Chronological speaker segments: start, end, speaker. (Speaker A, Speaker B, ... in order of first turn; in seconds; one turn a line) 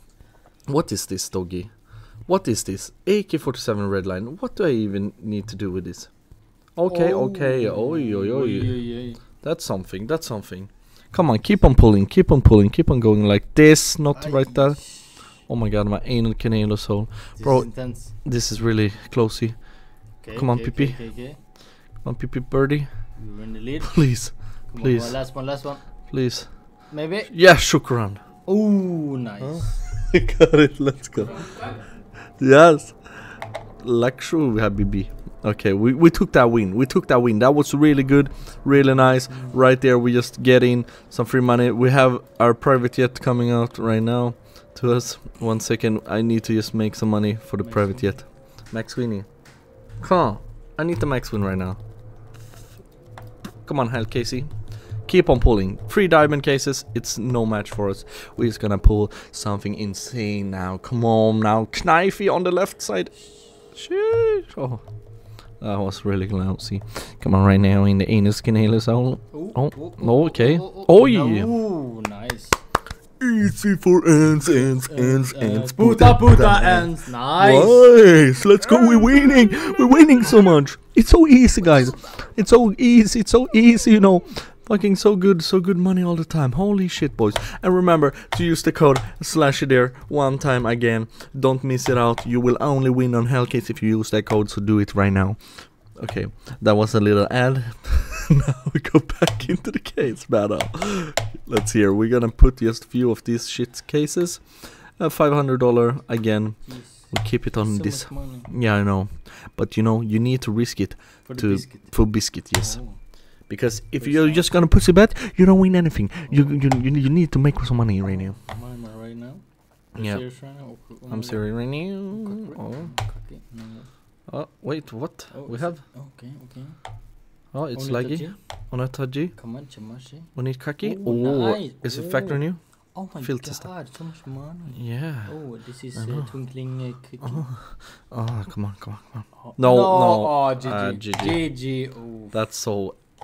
Speaker A: 0.7-1.7
Speaker A: 2.2-6.1
Speaker A: 6.7-8.8
Speaker B: 6.8-9.2
Speaker A: 9.3-19.7
Speaker B: 14.1-15.4
Speaker B: 17.4-18.1
Speaker B: 20.2-21.4
Speaker A: 20.3-21.0
Speaker A: 22.0-22.9
Speaker B: 23.2-25.8
Speaker A: 23.8-25.2
Speaker A: 26.1-26.5
Speaker B: 26.9-27.3
Speaker A: 27.2-28.2
Speaker B: 28.4-29.7
Speaker A: 29.4-31.7
Speaker A: 32.4-49.2
Speaker B: 47.6-48.2
Speaker A: 50.0-51.8
Speaker A: 53.6-54.5
Speaker A: 55.0-63.1
Speaker A: 63.7-64.8
Speaker A: 65.6-71.5
Speaker B: 69.3-72.6
Speaker A: 73.2-118.4
Speaker B: 74.5-77.9
Speaker B: 106.6-108.5
Speaker B: 111.2-113.1
Speaker B: 114.0-114.6
Speaker B: 116.3-116.6
Speaker B: 118.0-123.9
Speaker A: 119.9-120.2
Speaker A: 121.1-122.9
Speaker A: 124.3-125.8
Speaker B: 125.3-126.8
Speaker A: 127.5-129.3
Speaker B: 127.7-128.3
Speaker B: 129.3-137.5
Speaker A: 130.3-133.7
Speaker A: 134.7-135.4
Speaker A: 135.9-136.3
Speaker A: 137.2-141.5
Speaker B: 139.4-142.3
Speaker A: 142.3-143.0